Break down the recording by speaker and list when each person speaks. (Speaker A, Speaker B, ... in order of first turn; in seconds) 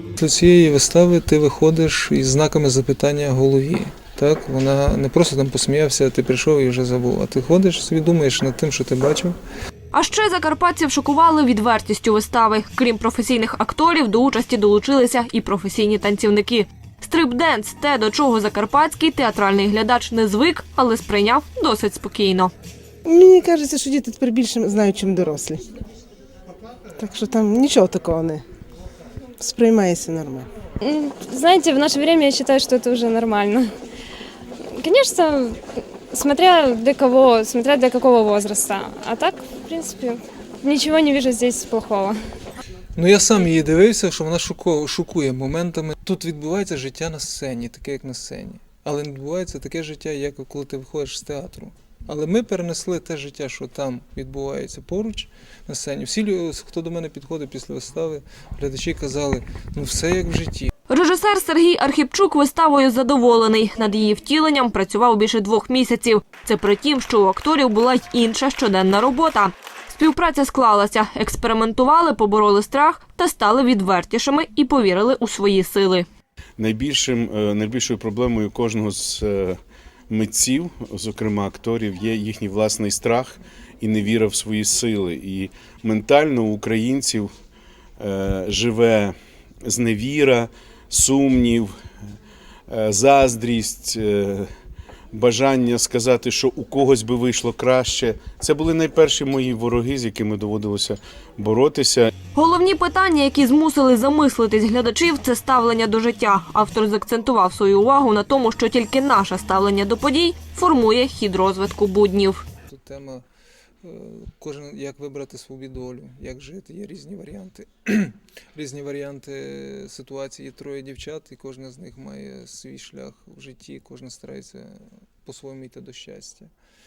Speaker A: 0.2-9.4, 43.0-60.7, 112.7-113.2, 113.8-126.5
Speaker B: 9.9-22.5, 60.9-76.1, 102.3-112.4
Speaker C: 23.1-25.6, 27.0-28.4, 29.4-30.5
Speaker D: 30.8-33.7, 34.7-35.6, 36.1-42.2
Speaker E: 76.6-79.6, 80.1-87.3, 88.0-91.7, 92.7-94.5, 95.1-102.1